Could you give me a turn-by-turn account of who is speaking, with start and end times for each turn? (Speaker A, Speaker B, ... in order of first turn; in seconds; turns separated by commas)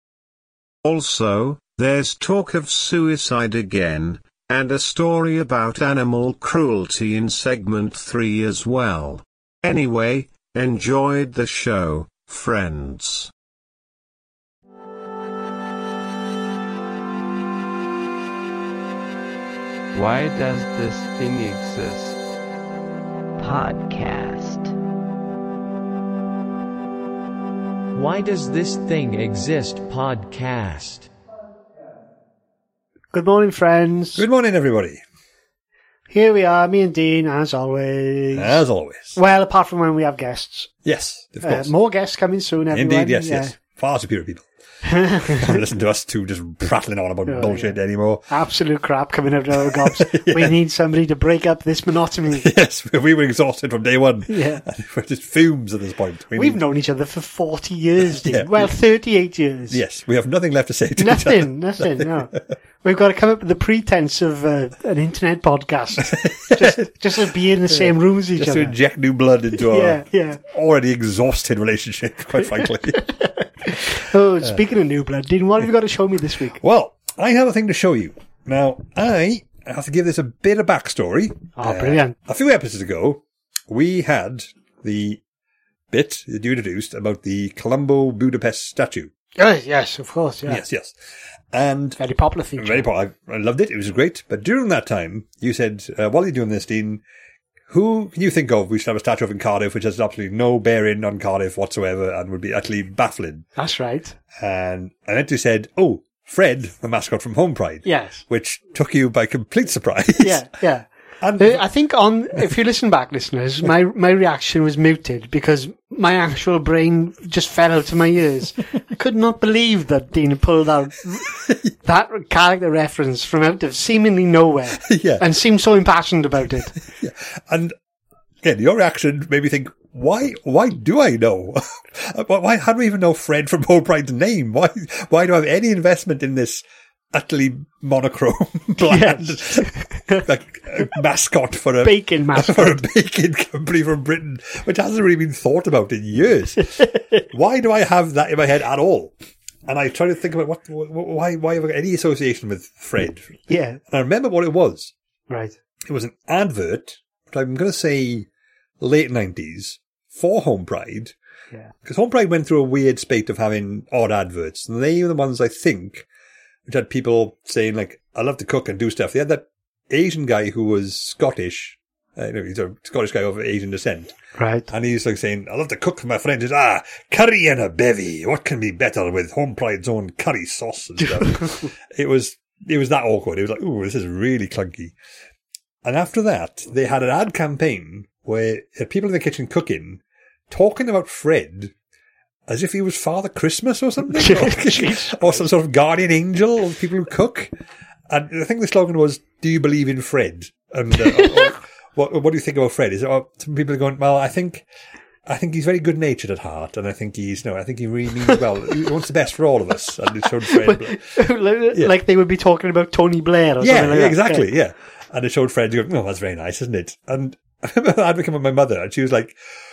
Speaker A: 0.8-13.3, Speaker B: 19.9-22.2, Speaker B: 23.4-24.7, Speaker C: 27.9-31.1, Speaker D: 33.1-34.2, Speaker E: 34.2-35.0, Speaker D: 36.1-38.6, Speaker E: 38.4-39.2, Speaker D: 39.1-40.7, Speaker E: 40.9-41.7, Speaker D: 41.4-43.5, Speaker E: 42.7-44.5, Speaker D: 44.9-45.6, Speaker E: 45.2-48.2, Speaker D: 47.3-47.8, Speaker D: 48.3-52.5, Speaker E: 49.7-50.5, Speaker E: 52.3-56.6, Speaker D: 54.3-54.6, Speaker D: 56.4-59.8, Speaker E: 58.1-58.7, Speaker E: 59.7-62.4, Speaker D: 61.0-68.8, Speaker E: 66.0-66.9, Speaker E: 67.7-73.0, Speaker D: 69.5-70.4, Speaker D: 72.9-76.6, Speaker E: 76.6-85.2, Speaker D: 81.6-82.2, Speaker E: 85.9-89.1, Speaker D: 89.4-90.6, Speaker E: 90.5-91.0, Speaker E: 91.5-92.0, Speaker D: 92.0-92.9, Speaker E: 92.6-97.0, Speaker E: 97.7-103.5, Speaker D: 103.6-104.2, Speaker E: 104.4-110.5, Speaker D: 107.8-108.2, Speaker D: 110.2-126.8, Speaker E: 111.2-111.6, Speaker E: 124.8-125.2, Speaker E: 127.0-127.8, Speaker E: 128.4-149.1, Speaker D: 138.8-140.2, Speaker D: 141.8-142.8, Speaker E: 149.7-154.9, Speaker D: 153.5-153.8, Speaker D: 155.3-155.6, Speaker E: 155.9-158.3, Speaker E: 158.8-161.2, Speaker E: 161.8-166.1, Speaker E: 166.7-174.2, Speaker D: 174.4-174.7, Speaker E: 174.7-184.9, Speaker D: 181.2-181.7, Speaker E: 185.8-191.7, Speaker E: 192.5-197.5, Speaker D: 194.1-195.2, Speaker E: 198.1-204.7, Speaker D: 201.2-201.5, Speaker E: 205.3-211.2, Speaker D: 210.5-214.4, Speaker E: 213.6-219.4